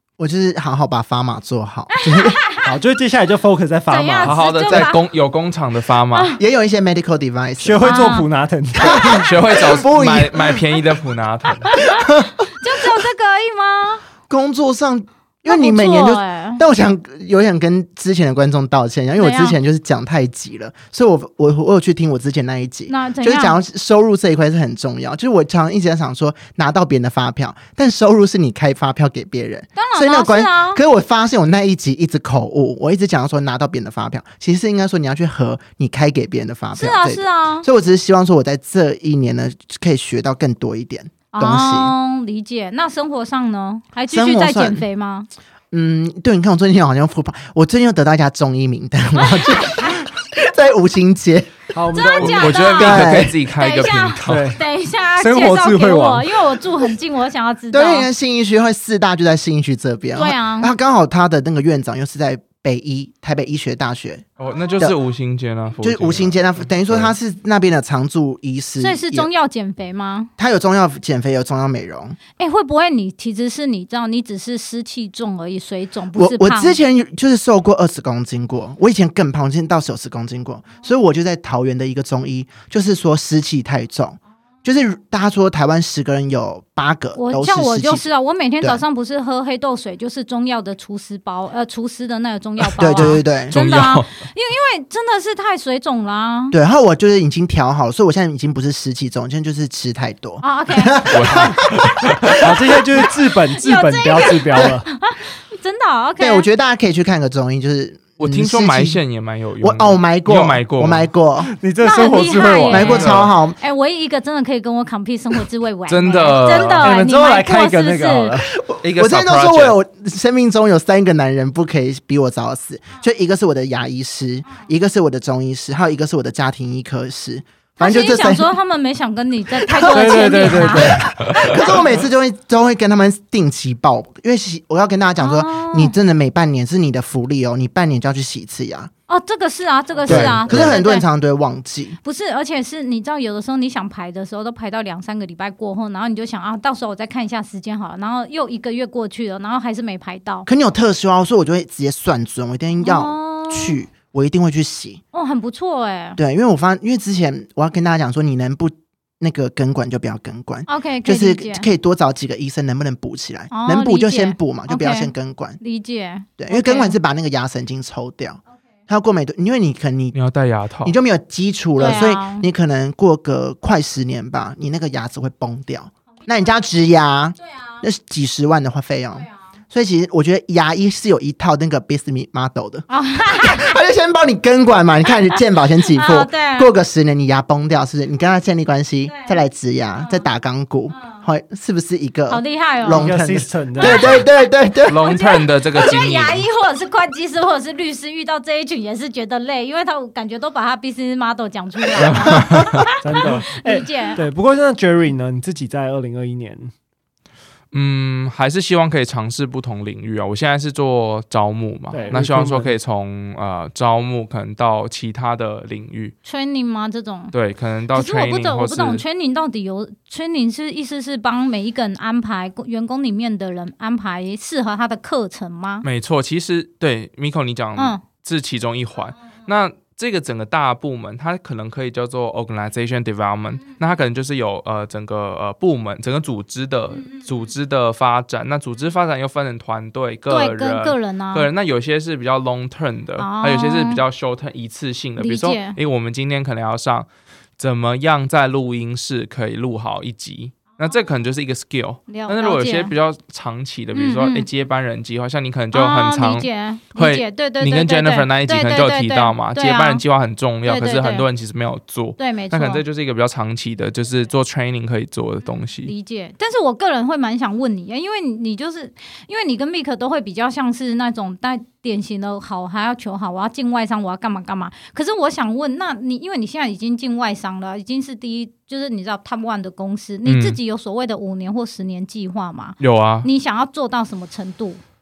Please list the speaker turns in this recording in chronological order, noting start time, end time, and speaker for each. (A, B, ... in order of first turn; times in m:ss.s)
0:00.2-0:02.4 A
0:02.0-0:02.7 B
0:02.6-0:04.5 C
0:03.9-0:05.0 B
0:04.2-0:06.4 D
0:06.1-0:06.4 B
0:06.4-0:08.2 A
0:07.6-0:09.2 C
0:07.8-0:08.3 B
0:08.8-0:10.6 A
0:09.0-0:11.7 D
0:11.7-0:14.0 B
0:11.8-0:12.5 A
0:14.3-0:41.9 A
0:15.5-0:16.6 B
0:19.2-0:19.6 B
0:22.9-0:23.6 B
0:29.8-0:30.8 B
0:36.8-0:37.7 B
0:41.3-0:45.3 B
0:44.1-0:44.8 A
0:45.7-0:51.7 A
0:49.4-0:49.9 B
0:51.7-0:52.6 C
0:51.9-0:58.1 B
0:52.2-0:54.5 D
0:52.8-0:53.4 A
0:54.2-0:54.6 C
0:55.2-0:56.4 C
0:57.7-1:04.2 A
1:00.2-1:00.7 B
1:04.4-1:07.1 D
1:05.8-1:09.3 A
1:08.8-1:10.3 B
1:10.4-1:12.2 A
1:12.4-1:16.8 B
1:16.2-1:28.0 A
1:27.2-1:36.6 B
1:32.8-1:33.6 A
1:32.8-1:34.1 D
1:36.5-1:42.4 A
1:40.4-1:41.1 B
1:41.1-1:42.5 D
1:42.4-1:44.9 C
1:43.5-1:46.5 B
1:46.2-1:49.0 A
1:48.2-1:51.1 D
1:49.6-1:51.5 A
1:51.4-1:53.1 C
1:51.8-1:58.4 B
1:52.7-1:53.6 A
1:52.8-1:53.3 D
1:55.9-1:56.9 D
1:56.8-1:58.6 C
1:58.5-2:08.5 A
1:58.8-1:59.8 D
2:07.8-2:11.8 B
2:09.6-2:18.9 A
2:09.9-2:11.1 C
2:15.2-2:16.0 B
2:19.1-2:21.0 B
2:20.1-2:22.0 A
2:20.1-2:20.7 D
2:20.3-2:20.7 C
2:22.0-2:30.5 B
2:30.5-2:35.0 A
2:32.8-2:33.8 B
2:35.1-2:36.2 B
2:36.2-2:45.6 A
2:40.7-2:41.7 B
2:43.5-2:47.0 B
2:46.4-2:50.2 A
2:50.1-2:51.0 D
2:50.8-3:15.2 A
2:51.8-2:52.4 B
2:57.5-2:57.8 B
3:02.9-3:03.7 B
3:05.9-3:06.7 B
3:12.3-3:13.1 B
3:12.9-3:14.1 C
3:13.8-3:14.4 B
3:14.9-3:16.4 D
3:15.0-3:24.2 B
3:22.3-3:22.7 A
3:22.4-3:22.6 D
3:23.0-3:26.7 C
3:27.7-3:36.2 D
3:31.9-3:32.8 C
3:36.2-3:37.3 B
3:37.3-3:39.0 D
3:37.9-3:45.8 B
3:45.8-4:25.9 D
3:47.8-3:48.0 B
4:00.3-4:01.5 B
4:03.2-4:04.0 B
4:05.2-4:05.8 B
4:12.1-4:12.9 B
4:13.9-4:14.5 B
4:15.7-4:20.0 B
4:20.6-4:21.3 B
4:22.2-4:22.8 B
4:25.8-4:44.8 B
4:40.2-4:40.6 D
4:42.8-4:43.3 D